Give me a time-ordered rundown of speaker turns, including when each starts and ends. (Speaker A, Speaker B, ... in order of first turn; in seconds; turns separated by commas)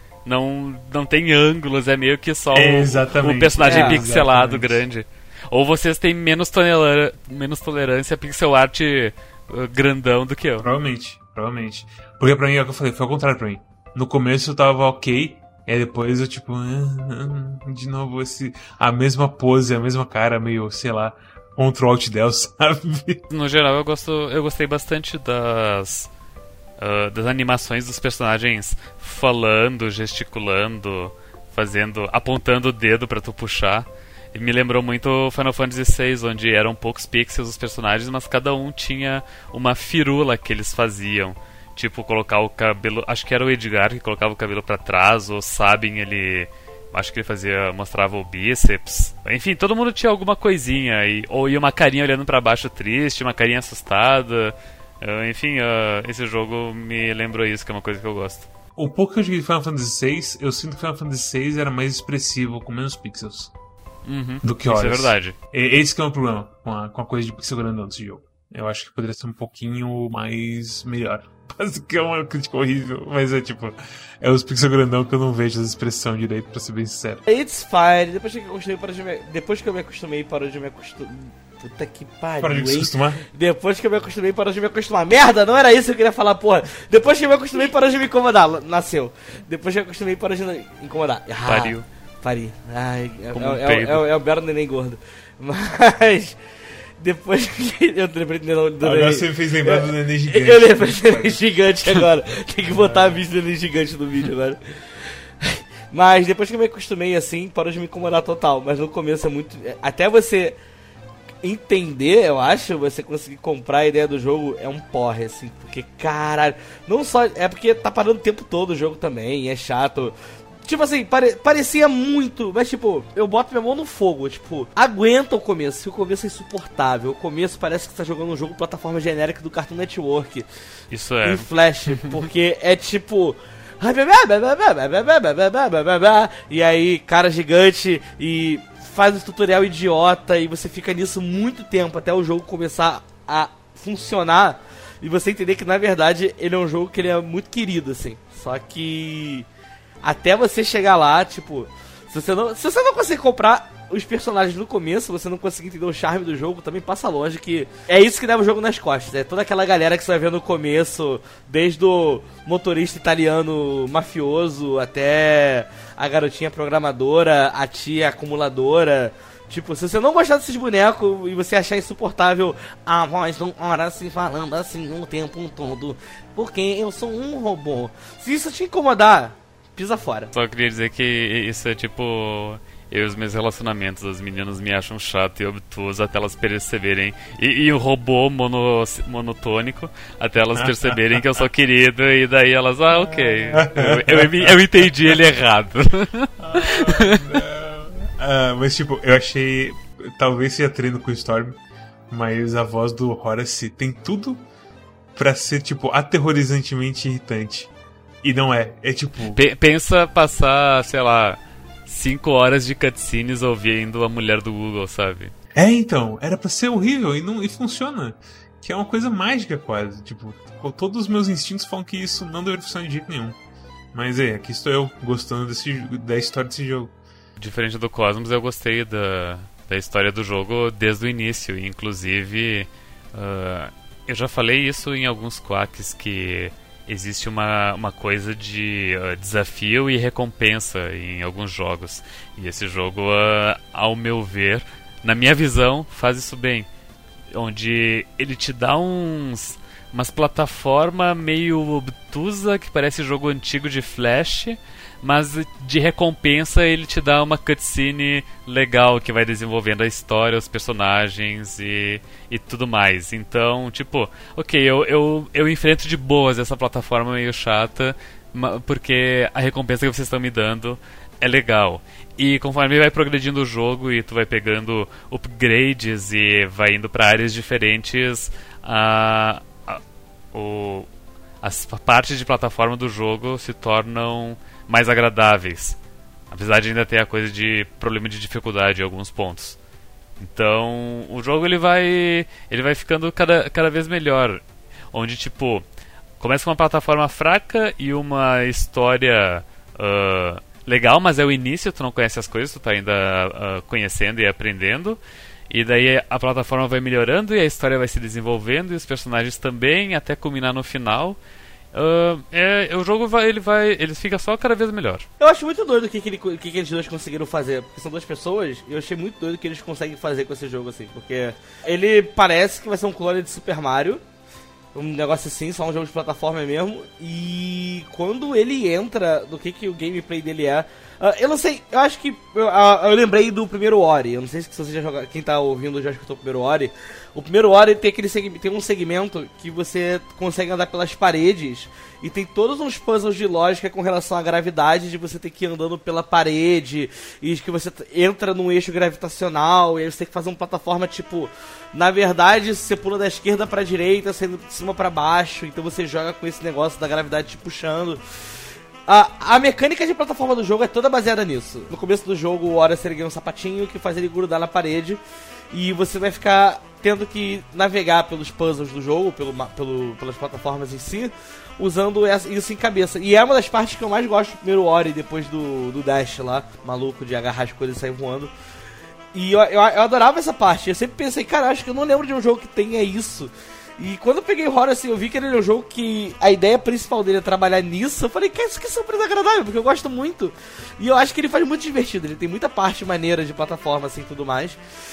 Speaker A: 0.2-10.7, Speaker B: 2.5-4.8, Speaker C: 3.6-4.0, Speaker B: 10.6-23.2, Speaker A: 23.3-26.1, Speaker A: 26.8-58.5, Speaker B: 58.8-63.5, Speaker A: 64.0-65.3, Speaker B: 64.4-77.2, Speaker C: 77.2-96.4, Speaker B: 82.4-83.2, Speaker A: 91.5-91.8, Speaker A: 93.3-94.0, Speaker C: 97.0-104.6, Speaker B: 98.8-101.4, Speaker C: 105.4-110.5, Speaker C: 111.4-120.1, Speaker C: 120.7-130.5, Speaker A: 130.9-132.2, Speaker C: 131.2-149.5, Speaker C: 150.0-180.3, Speaker A: 180.3-197.4, Speaker B: 190.5-191.0, Speaker B: 192.9-195.1, Speaker B: 196.4-201.6, Speaker B: 202.1-204.4, Speaker B: 205.1-207.7, Speaker B: 208.2-209.4, Speaker A: 209.3-215.3, Speaker B: 215.6-223.4, Speaker B: 223.9-226.9, Speaker A: 227.4-246.7, Speaker A: 247.3-279.8, Speaker A: 280.3-280.9, Speaker A: 281.4-285.8, Speaker A: 286.3-289.6, Speaker A: 290.2-295.6, Speaker A: 296.2-305.0, Speaker A: 305.5-311.2, Speaker A: 311.7-315.1, Speaker C: 315.2-324.0, Speaker C: 324.7-358.0, Speaker C: 358.9-365.0, Speaker C: 365.5-378.3, Speaker C: 379.1-394.6